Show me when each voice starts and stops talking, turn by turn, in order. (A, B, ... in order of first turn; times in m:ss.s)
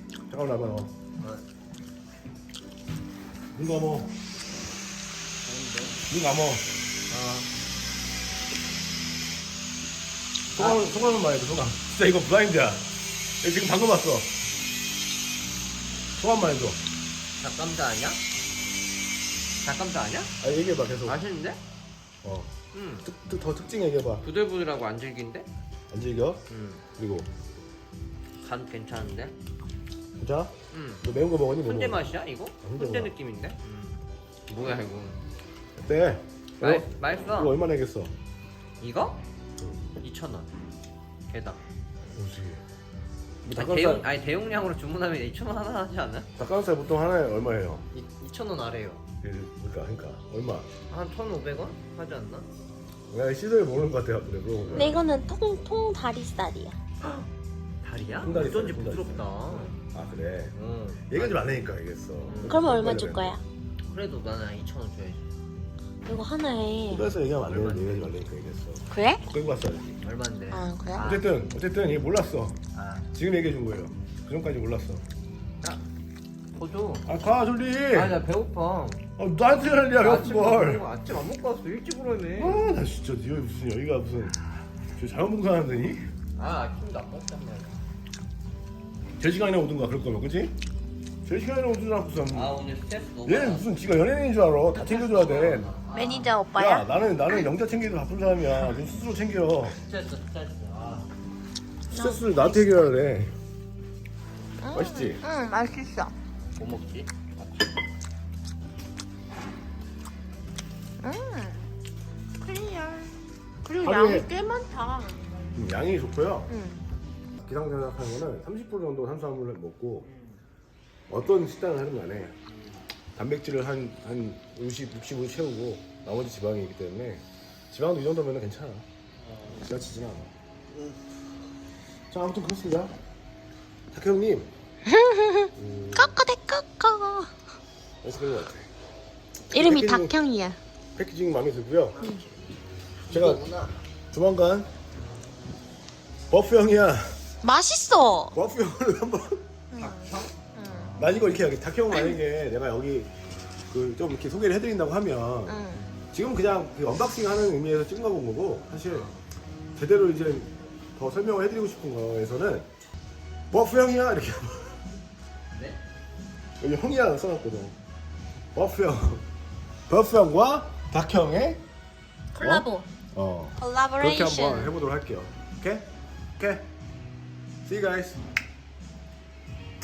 0:00.3-0:00.9 A
0:01.2-0:01.4 B
0:03.5-0:04.2 A
0:05.4-0:06.0 B
0:06.1-0:06.7 A
0:07.1-0:07.5 B
0:10.5-0:12.9 A
0:10.6-0:10.8 B
0:13.4-0:14.3 A
0:16.2-0:16.8 A
0:17.4-0:18.2 B
0:19.6-0:20.3 B
0:20.4-0:21.2 A
0:21.0-0:21.6 B
0:22.2-0:24.2 A
0:22.7-0:23.0 B
0:24.2-0:25.5 B
0:25.9-0:26.4 A
0:26.5-0:26.8 B
0:27.0-0:27.3 A
0:28.4-0:29.3 B
0:30.2-0:32.1 A
0:30.7-0:31.0 B
0:31.6-0:35.2 B
0:32.6-0:33.1 A
0:35.8-0:38.1 A
0:36.6-0:37.6 B
0:38.8-0:39.2 B
0:40.0-0:40.5 B
0:41.3-0:41.6 B
0:42.1-0:42.6 A
0:43.4-0:44.0 A
0:43.5-0:46.3 B
0:46.4-0:47.9 A
0:47.9-0:49.0 B
0:49.2-0:50.7 A
0:50.9-0:52.5 B
0:53.1-0:55.1 A
0:54.5-0:55.0 B
0:54.7-0:56.8 C
0:57.8-0:59.7 B
0:58.2-1:00.6 A
1:00.5-1:01.6 B
1:01.1-1:03.4 A
1:02.2-1:02.6 B
1:02.4-1:03.4 C
1:03.9-1:05.2 B
1:06.0-1:07.1 C
1:06.9-1:10.0 A
1:07.4-1:08.1 B
1:08.9-1:09.2 C
1:10.0-1:11.3 B
1:10.5-1:11.1 C
1:11.0-1:12.6 A
1:12.7-1:13.1 B
1:13.1-1:15.0 A
1:16.5-1:17.1 B
1:17.0-1:18.2 A
1:17.9-1:19.0 B
1:19.2-1:20.8 A
1:20.0-1:22.6 B
1:22.4-1:24.4 A
1:25.0-1:26.0 A
1:26.4-1:27.8 B
1:29.2-1:30.6 A
1:31.2-1:32.6 A
1:32.3-1:33.6 B
1:33.2-1:35.7 A
1:34.7-1:36.3 B
1:35.9-1:37.4 C
1:36.5-1:39.8 A
1:39.8-1:41.1 B
1:41.9-1:42.9 C
1:41.9-1:43.3 A
1:44.6-1:46.1 C
1:44.7-1:45.2 A
1:46.6-1:47.5 B
1:51.0-1:51.6 C
1:52.4-1:55.3 C
1:53.8-1:54.3 A
1:55.5-1:56.5 A
1:56.5-1:56.8 C
1:57.4-2:00.1 A
2:00.0-2:00.4 B
2:01.1-2:02.4 A
2:03.2-2:08.9 A
2:09.5-2:10.3 A
2:12.1-2:12.9 A
2:13.9-2:14.5 A
2:14.8-2:17.3 C
2:15.6-2:16.1 A
2:18.0-2:18.7 A
2:19.5-2:20.6 C
2:19.5-2:20.2 A
2:21.0-2:22.0 A
2:22.0-2:22.2 C
2:23.1-2:23.5 A
2:23.1-2:23.7 B
2:24.1-2:24.7 A
2:26.3-2:27.2 A
2:27.4-2:28.4 C
2:28.3-2:29.4 A
2:29.7-2:31.0 C
2:29.7-2:30.3 B
2:31.0-2:33.1 A
2:31.9-2:32.2 C
2:33.7-2:39.1 A
2:35.4-2:35.8 C
2:38.9-2:39.2 B
2:39.8-2:42.7 A
2:43.5-2:44.8 A
2:45.5-2:45.8 B
2:46.6-2:47.8 A
2:48.5-2:49.2 A
2:49.9-2:51.6 A
2:52.3-2:52.9 C
2:52.4-2:56.7 A
2:53.6-2:54.7 C
2:57.6-2:58.2 A